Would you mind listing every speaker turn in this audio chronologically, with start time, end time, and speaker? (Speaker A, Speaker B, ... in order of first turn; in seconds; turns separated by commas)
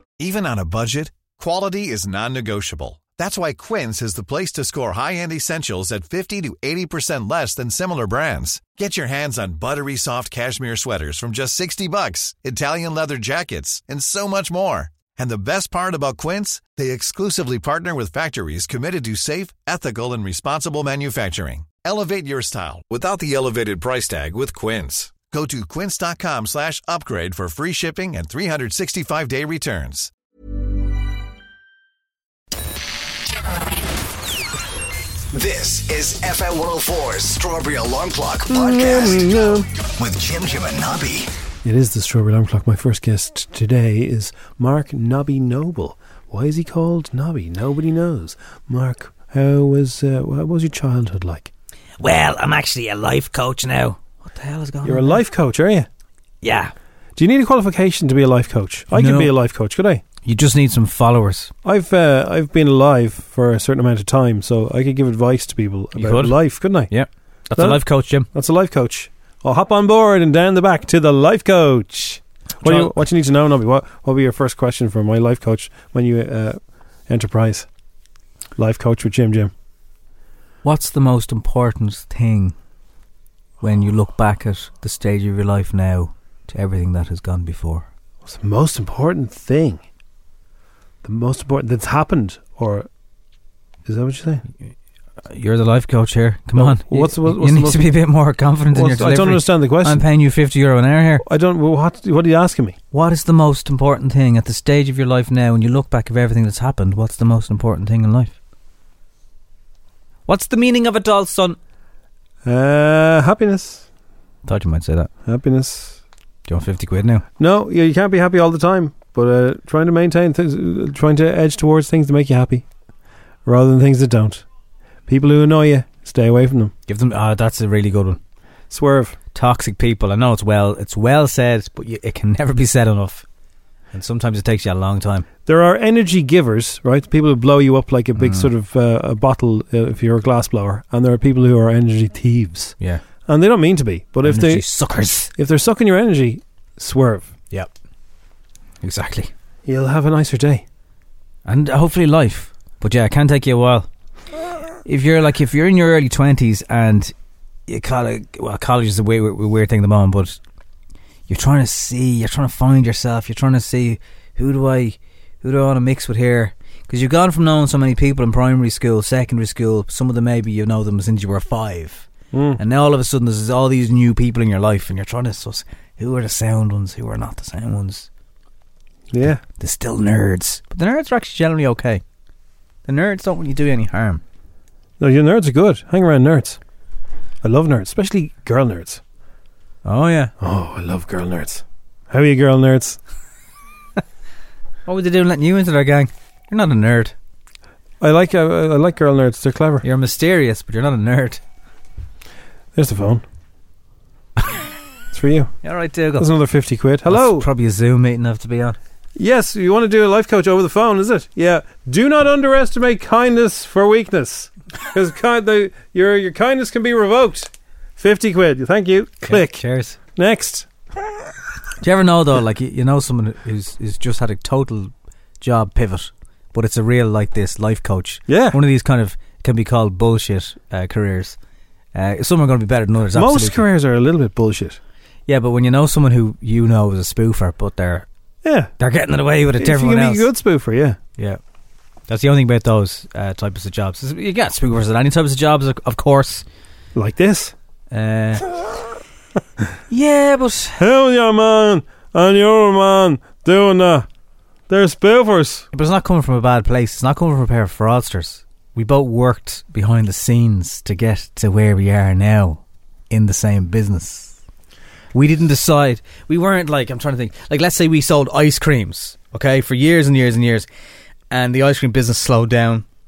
Speaker A: 0.2-30.1, Speaker B: 35.3-38.5, Speaker C: 38.5-39.7, Speaker B: 40.0-41.3, Speaker C: 41.6-51.5, Speaker D: 52.0-55.2, Speaker C: 54.9-55.9, Speaker D: 56.4-56.7, Speaker C: 57.2-60.0, Speaker D: 58.9-59.3, Speaker D: 60.2-61.5, Speaker C: 61.6-66.9, Speaker D: 66.0-68.3, Speaker C: 67.6-77.7, Speaker D: 72.6-72.9, Speaker C: 78.6-79.5, Speaker D: 80.6-82.5, Speaker D: 83.6-87.9, Speaker C: 88.2-89.8, Speaker C: 91.0-92.9, Speaker C: 93.9-94.4, Speaker D: 95.3-101.2, Speaker C: 96.6-97.9, Speaker C: 98.7-100.0, Speaker C: 101.2-102.8, Speaker D: 102.9-108.3, Speaker D: 110.3-111.6, Speaker C: 112.5-113.9, Speaker D: 114.5-115.1, Speaker C: 115.2-116.0, Speaker D: 116.5-117.3, Speaker C: 117.4-122.7, Speaker C: 123.5-124.5, Speaker C: 125.1-126.7, Speaker D: 126.9-128.2, Speaker C: 128.7-129.2, Speaker D: 129.3-133.2, Speaker D: 133.9-135.3, Speaker C: 135.5-142.8, Speaker D: 138.2-138.5, Speaker C: 143.3-144.7, Speaker D: 144.2-145.3, Speaker C: 145.3-147.3, Speaker D: 148.8-149.3, Speaker C: 149.7-150.6, Speaker D: 151.5-153.9, Speaker D: 154.8-157.1, Speaker D: 157.7-160.4, Speaker D: 161.3-172.1, Speaker C: 172.3-172.6, Speaker D: 172.6-178.1, Speaker C: 179.1-179.4, Speaker D: 179.6-182.0, Speaker D: 182.9-184.2, Speaker C: 185.0-186.6, Speaker C: 187.4-189.0, Speaker D: 189.8-190.3, Speaker C: 190.4-193.0, Speaker D: 194.9-197.2, Speaker C: 198.0-199.8, Speaker D: 199.8-201.4, Speaker C: 202.8-203.2, Speaker C: 205.1-205.5, Speaker D: 205.6-206.3, Speaker C: 206.2-207.5, Speaker D: 207.1-208.8, Speaker C: 209.2-219.6, Speaker D: 219.3-220.0, Speaker C: 220.2-220.7, Speaker D: 221.8-231.4, Speaker C: 228.3-228.6, Speaker D: 231.9-233.6, Speaker C: 233.1-234.8, Speaker D: 235.3-238.1, Speaker C: 238.4-238.7, Speaker D: 238.8-240.3, Speaker C: 239.6-241.0, Speaker D: 242.1-246.4, Speaker C: 246.9-247.6, Speaker D: 247.9-248.4, Speaker D: 249.9-250.8, Speaker C: 250.8-254.1, Speaker C: 254.7-255.7, Speaker D: 255.7-264.4, Speaker D: 265.1-270.7, Speaker D: 271.3-272.9